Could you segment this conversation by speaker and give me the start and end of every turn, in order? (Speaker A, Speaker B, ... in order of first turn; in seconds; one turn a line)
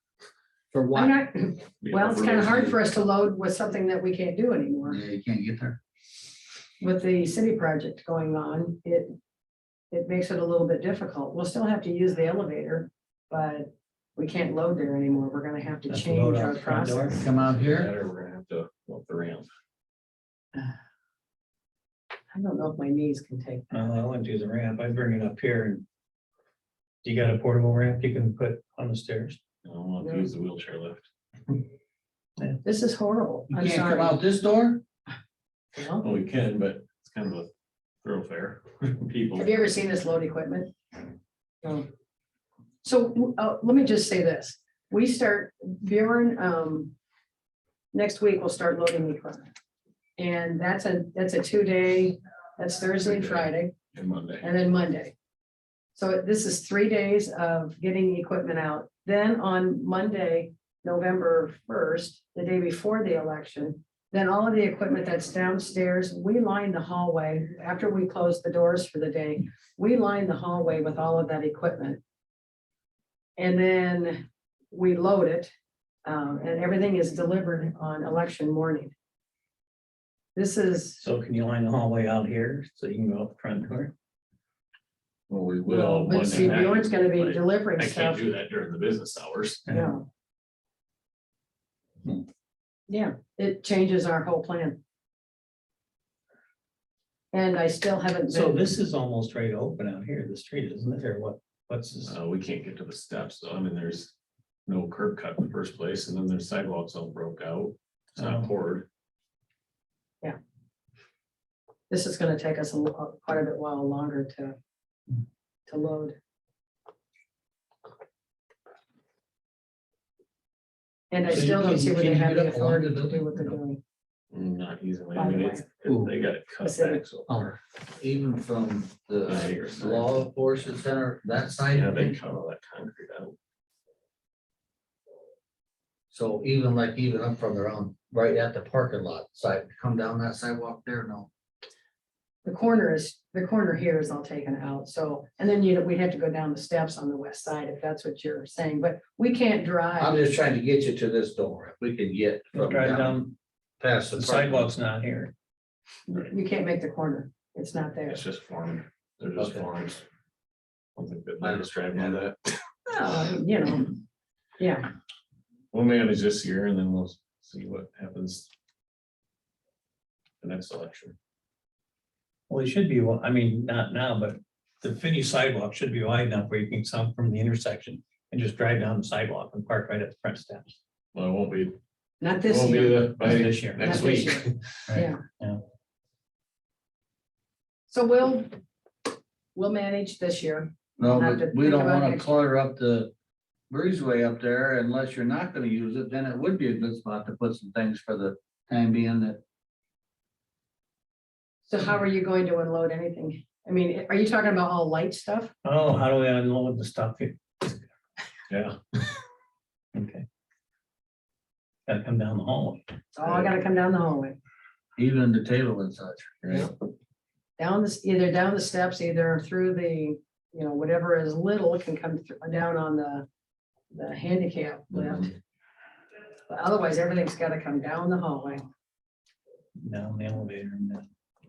Speaker A: 0.7-1.1
Speaker B: 0.9-5.0
Speaker C: 1.8-2.8
Speaker A: 4.9-5.8
Speaker B: 6.8-9.1
Speaker B: 9.9-17.2
Speaker D: 15.9-17.2
Speaker A: 17.2-17.9
Speaker C: 17.3-19.5
Speaker B: 22.3-23.7
Speaker D: 23.7-25.8
Speaker D: 27.0-29.4
Speaker C: 29.6-31.6
Speaker B: 30.0-30.3
Speaker B: 32.6-34.2
Speaker A: 33.5-34.8
Speaker B: 35.7-36.0
Speaker C: 36.0-37.5
Speaker C: 38.0-39.8
Speaker B: 39.4-40.7
Speaker B: 42.8-46.9
Speaker B: 47.9-49.5
Speaker B: 50.2-53.7
Speaker C: 53.0-54.5
Speaker B: 54.4-55.1
Speaker B: 55.9-72.0
Speaker B: 73.4-75.5
Speaker B: 76.0-78.9
Speaker B: 80.3-81.0
Speaker D: 81.0-83.9
Speaker C: 85.3-89.7
Speaker B: 85.7-88.2
Speaker D: 89.7-90.0
Speaker B: 89.7-90.1
Speaker B: 92.9-94.8
Speaker B: 97.3-98.7
Speaker D: 98.3-102.2
Speaker C: 102.0-104.1
Speaker C: 104.7-108.8
Speaker D: 108.2-108.5
Speaker B: 111.9-114.5
Speaker B: 115.7-116.2
Speaker B: 121.1-123.8
Speaker A: 121.2-123.4
Speaker C: 124.3-127.6
Speaker B: 125.1-125.6
Speaker A: 125.8-126.1
Speaker B: 126.6-127.0
Speaker A: 127.3-132.2
Speaker C: 129.2-130.8
Speaker C: 131.6-133.3
Speaker A: 136.1-141.3
Speaker B: 142.4-150.3
Speaker A: 150.0-153.2
Speaker D: 152.5-153.3
Speaker A: 153.8-154.7
Speaker D: 154.1-155.3
Speaker B: 156.1-158.2
Speaker C: 158.1-160.0
Speaker A: 159.4-159.7
Speaker C: 160.9-162.4
Speaker B: 162.9-163.9
Speaker B: 164.6-164.9
Speaker C: 165.7-168.5
Speaker C: 170.4-171.2
Speaker D: 172.5-180.8
Speaker C: 181.1-181.8
Speaker B: 182.2-185.2
Speaker C: 182.5-184.5
Speaker D: 183.4-183.8
Speaker D: 184.9-185.6
Speaker B: 187.9-188.5
Speaker B: 189.5-192.3
Speaker A: 191.0-193.1
Speaker A: 193.7-199.4
Speaker B: 201.6-205.5
Speaker D: 205.6-207.8
Speaker C: 208.5-208.8
Speaker D: 209.9-210.2
Speaker D: 211.9-212.8
Speaker B: 213.1-214.4
Speaker A: 214.9-216.7
Speaker C: 216.4-216.7
Speaker B: 217.6-223.2
Speaker B: 223.9-225.3
Speaker B: 226.5-228.7
Speaker D: 229.8-231.0